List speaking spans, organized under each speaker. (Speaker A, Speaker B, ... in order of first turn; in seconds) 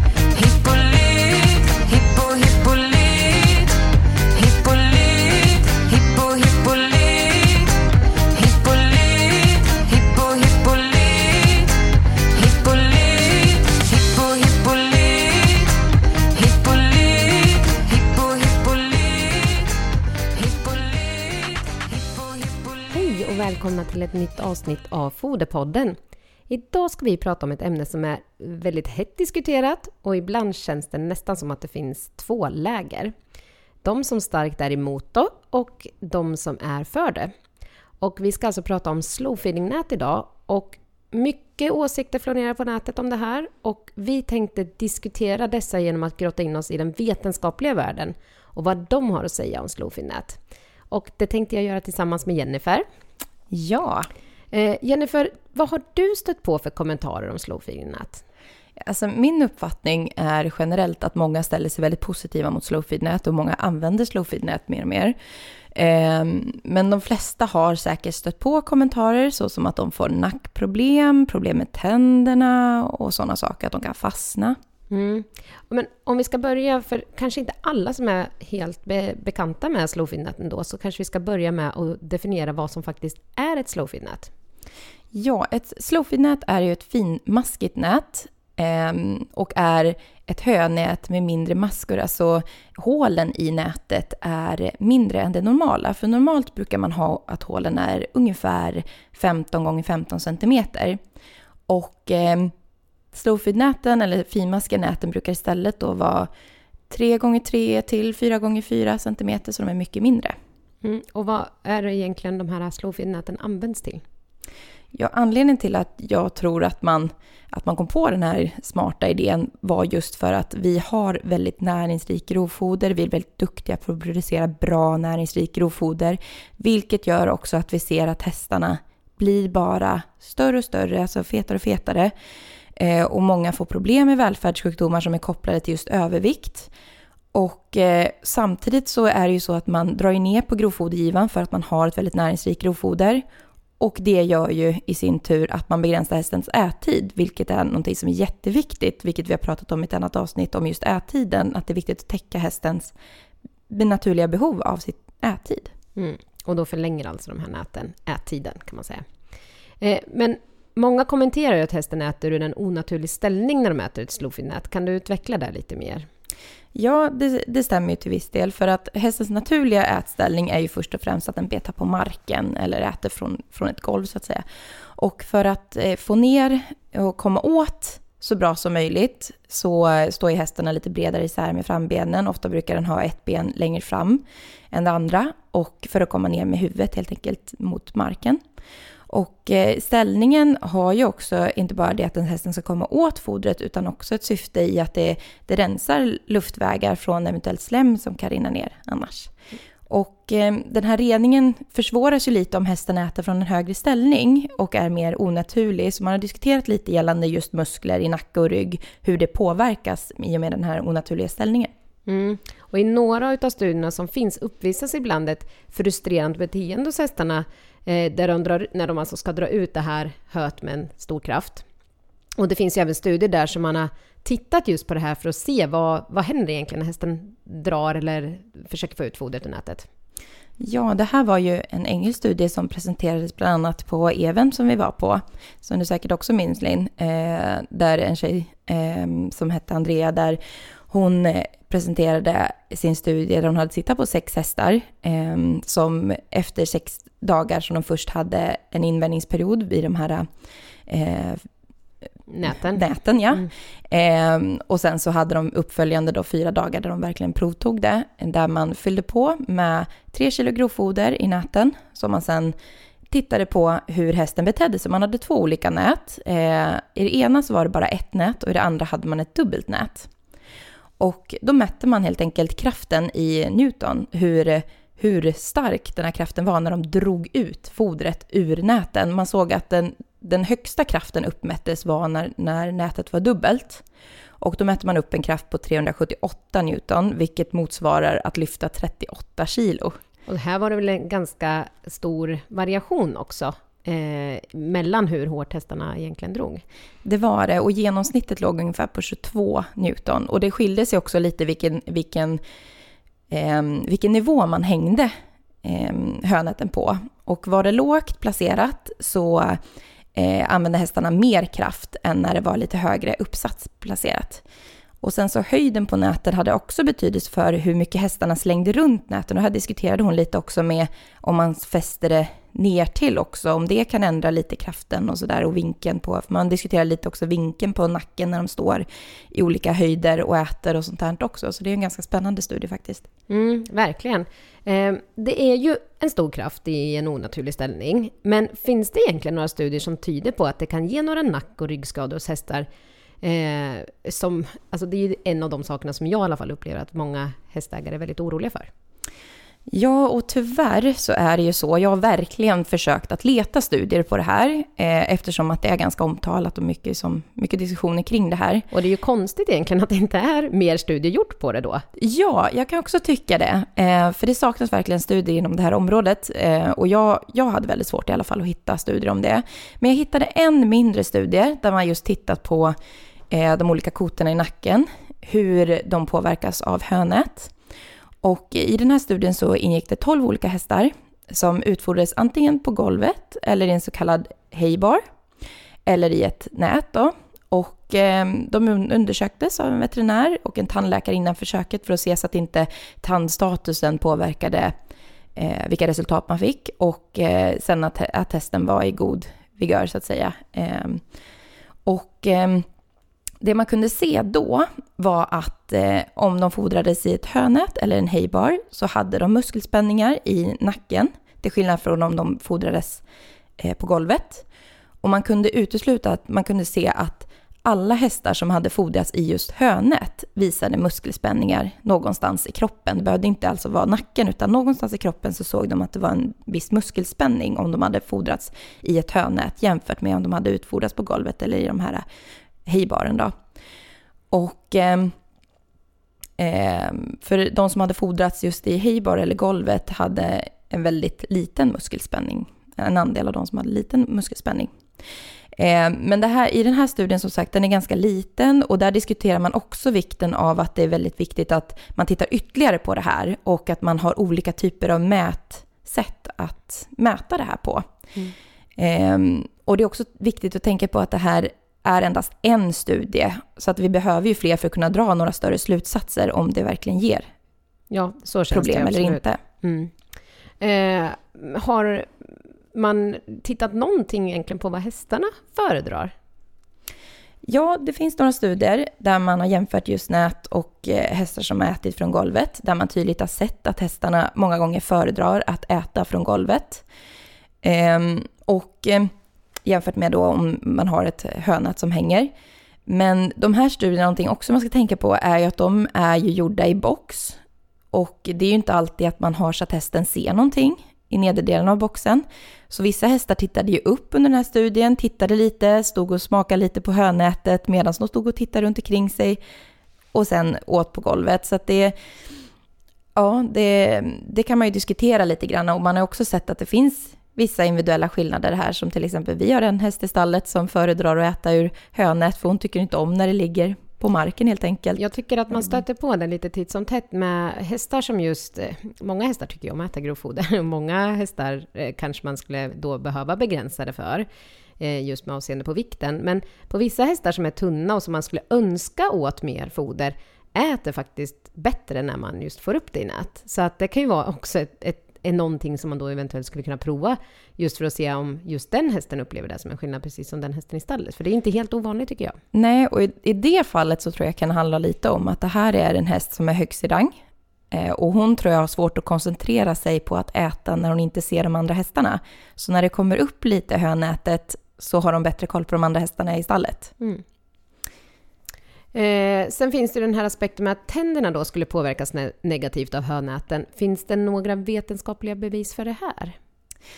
Speaker A: 0.3-3.7, 4.3-7.8, 8.3-11.8, 12.3-15.7, 16.3-19.7, 20.3-22.9
Speaker B: 22.9-26.0, 26.5-33.1, 33.8-37.3, 38.0-50.4, 50.9-52.8, 54.5-58.2, 74.9-84.3, 110.8-114.0, 155.9-159.0, 159.8-166.1, 212.1-221.6, 222.4-229.9, 252.3-252.8, 290.3-296.6, 333.3-342.7, 343.2-348.7, 358.7-361.8, 467.9-469.9, 470.6-476.1, 525.0-534.2, 534.8-552.4, 568.9-576.4
Speaker C: 53.5-54.1, 58.8-65.1, 65.7-74.6, 85.1-101.0, 101.7-102.5, 103.1-106.3, 106.9-110.3, 114.9-132.1, 132.8-136.7, 137.3-143.2, 143.8-152.9, 153.7-155.7, 166.7-174.4, 174.9-188.4, 189.1-199.3, 199.9-211.7, 230.6-250.3, 250.9-251.4, 252.7-262.6, 263.1-270.1, 271.0-283.8, 284.4-290.0, 297.0-302.4, 303.3-305.1, 305.6-309.6, 310.1-314.4, 315.0-333.1, 349.7-358.6, 361.9-372.7, 373.3-377.5, 378.2-385.0, 385.9-394.7, 395.4-401.0, 401.9-402.7, 403.4-413.0, 413.6-414.4, 415.0-432.0, 432.6-433.3, 434.3-435.1, 436.4-444.7, 445.6-457.8, 458.8-467.3, 468.5-469.4, 477.4-486.8, 487.6-489.1, 489.6-492.3, 492.9-497.4, 497.9-509.4, 510.1-511.9, 513.1-525.0, 552.5-566.9